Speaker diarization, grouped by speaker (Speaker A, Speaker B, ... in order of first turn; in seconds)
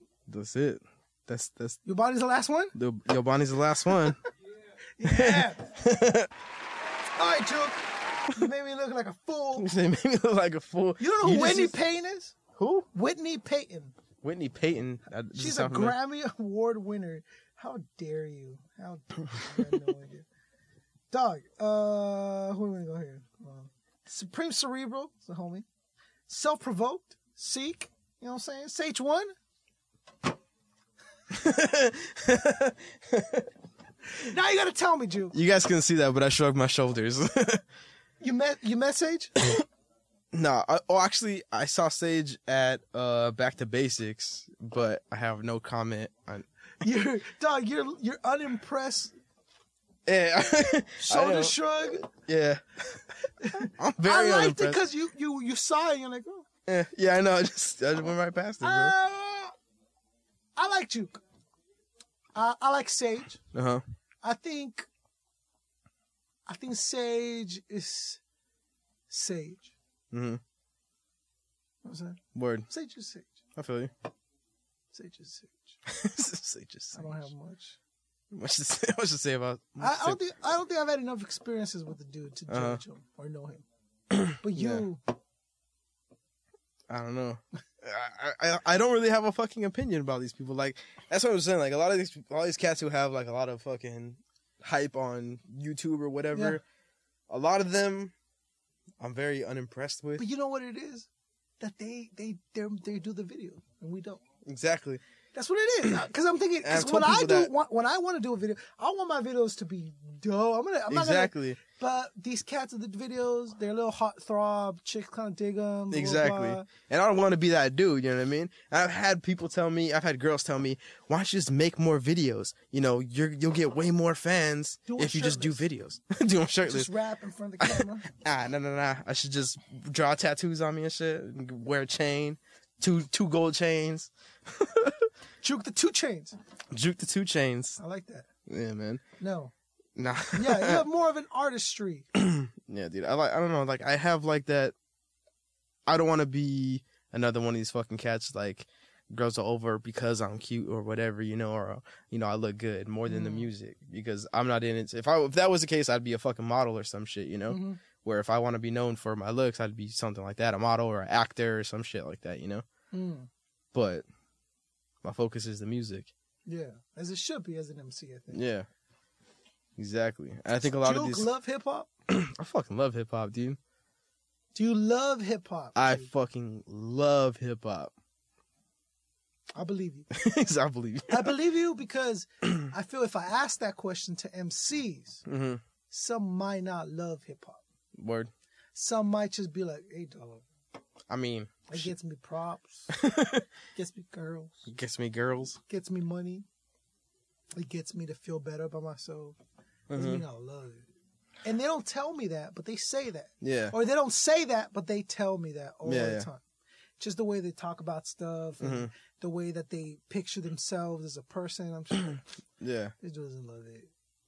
Speaker A: 0.3-1.8, 2.7-4.2, 5.0-6.3, 9.6-11.8, 12.6-12.9, 14.2-16.0, 31.3-33.5, 35.3-37.6, 40.3-46.5, 50.1-53.0, 53.5-54.8, 56.7-58.9, 63.5-63.8, 70.1-70.4, 72.3-72.7, 73.6-73.9, 75.9-77.3, 78.3-80.2, 82.5-82.8, 84.1-84.9, 86.9-96.6, 97.3-98.1, 99.0-100.2, 104.5-105.0, 106.6-107.5, 110.9-111.6, 115.9-126.9, 127.6-135.0, 136.7-137.8, 138.5-139.0, 140.0-140.8, 142.2-144.7, 145.9-162.7, 163.7-164.1, 165.0-166.1, 168.3-168.7, 169.8-171.3, 172.1-173.6, 175.8-177.9, 180.1-181.3, 185.3-185.6, 187.9-188.3, 191.1-191.9, 192.9-193.4, 194.7-195.6, 199.9-200.2, 203.4-203.8, 205.8-206.3, 208.6-208.9, 212.1-212.9
Speaker B: 1.9-2.7, 5.0-5.7, 7.2-9.7, 11.0-12.3, 12.9-13.9, 15.4-20.3, 21.1-25.6, 26.3-29.3, 34.2-35.4, 38.2-39.4, 46.8-49.1, 51.0-52.1, 53.4-56.5, 58.6-59.5, 60.6-61.2, 62.4-63.4, 64.2-64.9, 66.5-68.2, 69.1-69.7, 71.8-73.3, 74.9-75.8, 76.9-77.8, 79.8-83.6, 84.4-85.0, 96.3-96.6, 100.2-101.1, 101.6-104.2, 105.3-116.7, 124.9-125.7, 126.7-128.1, 135.4-136.3, 137.8-138.3, 139.2-139.5, 140.3-142.1, 153.1-153.5, 157.5-157.8, 162.9-163.3, 166.5-168.4, 170.8-171.9, 174.6-176.1, 179.6-180.1, 181.1-185.2, 185.9-187.6, 188.8-190.4, 191.7-192.9, 193.8-194.7, 195.7-196.4, 197.5-199.4, 199.9-200.9, 201.4-206.4, 207.0-212.2, 213.0-213.9